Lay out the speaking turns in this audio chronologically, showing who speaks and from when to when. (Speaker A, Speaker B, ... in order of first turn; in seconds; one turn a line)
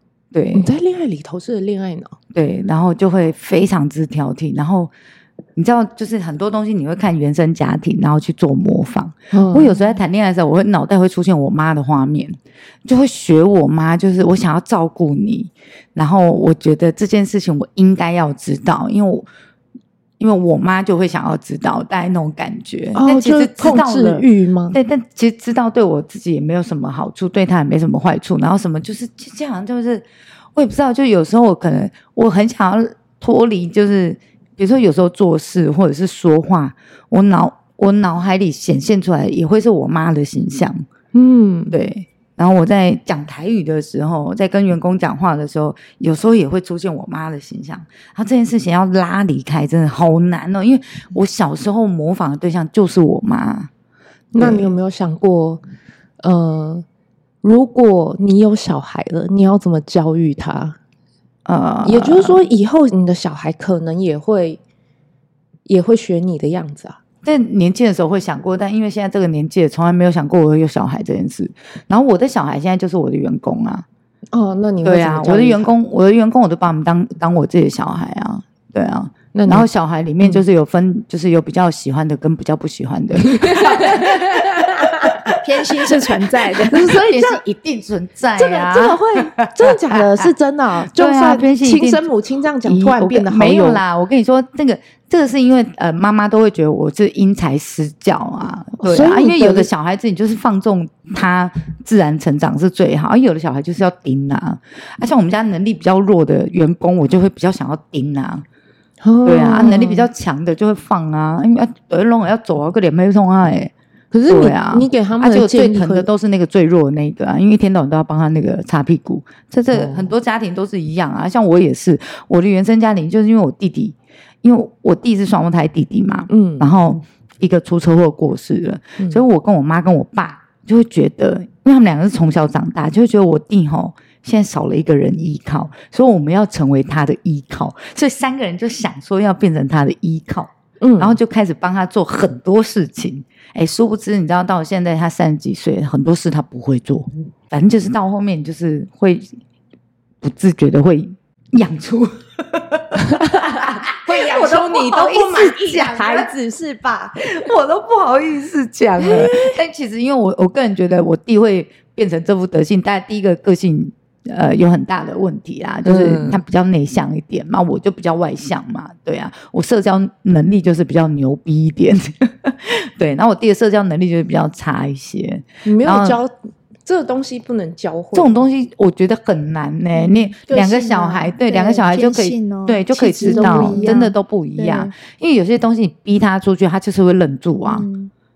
Speaker A: 0.3-0.7
Speaker B: 0.5-2.2
Speaker A: 2.3-4.9
Speaker A: 5.5-19.3
Speaker B: 9.3-9.7
Speaker A: 20.2-40.8
Speaker B: 22.9-24.8
Speaker B: 41.1-41.7
Speaker A: 41.7-53.7
Speaker B: 54.3-55.6
Speaker A: 54.4-54.7
Speaker B: 56.2-56.8
Speaker B: 57.4-60.8
Speaker A: 61.5-62.4
Speaker B: 61.8-64.6
Speaker B: 65.7-67.0
Speaker A: 67.2-73.8
Speaker B: 74.3-75.7
Speaker A: 74.8-85.3
Speaker B: 79.3-79.7
Speaker B: 83.2-85.2
Speaker C: 85.4-86.9
Speaker A: 86.5-90.3
Speaker B: 86.7-87.4
Speaker B: 88.4-93.8
Speaker A: 90.8-92.1
Speaker A: 92.6-108.4
Speaker B: 98.8-99.7
Speaker B: 109.0-110.1
Speaker A: 109.2-113.7
Speaker B: 114.1-116.1
Speaker A: 114.3-149.4
Speaker B: 119.7-120.1
Speaker B: 126.3-126.7
Speaker B: 140.8-141.2
Speaker A: 150.2-156.3
Speaker B: 153.2-157.2
Speaker A: 157.2-176.2
Speaker B: 159.0-159.4
Speaker B: 165.8-166.4
Speaker B: 175.6-176.3
Speaker B: 176.8-178.4
Speaker A: 178.1-187.9
Speaker C: 179.9-184.9
Speaker B: 183.2-184.0
Speaker C: 187.6-188.1